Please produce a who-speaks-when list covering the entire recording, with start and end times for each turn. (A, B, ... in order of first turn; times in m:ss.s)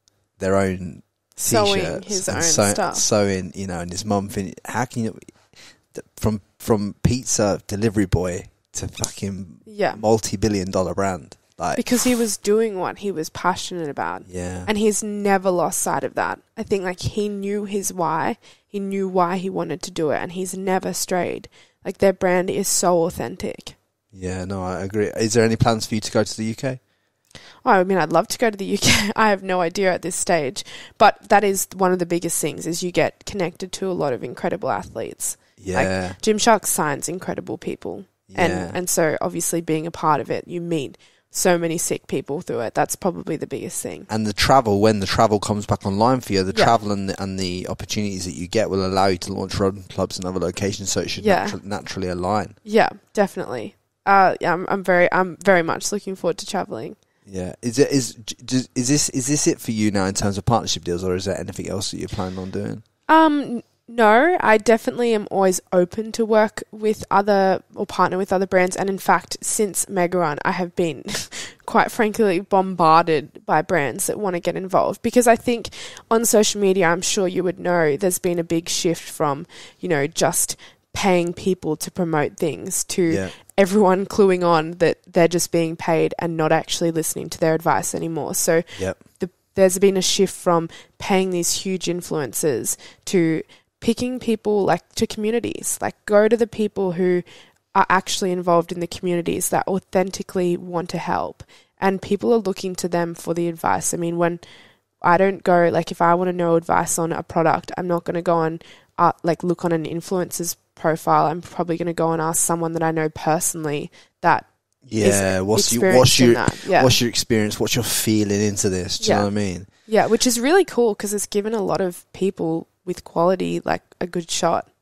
0:00.4-0:11.8 A
0:01.4-0:03.0 B
0:09.6-0:10.0 B
0:11.8-0:23.8 B
0:14.2-0:14.7 A
0:24.1-0:26.8 A
0:27.6-0:44.1 B
0:35.6-0:36.2 A
0:38.3-0:38.8 A
0:44.1-0:52.6 A
0:51.2-0:51.6 B
0:52.6-0:57.0 B
0:57.2-1:02.8 A
1:03.1-1:37.2 B
1:23.1-1:23.3 A
1:28.8-1:29.0 A
1:37.7-1:44.4 B
1:45.0-1:57.0 B
1:54.8-1:59.7 A
1:59.0-1:59.3 B
1:59.8-2:04.7 B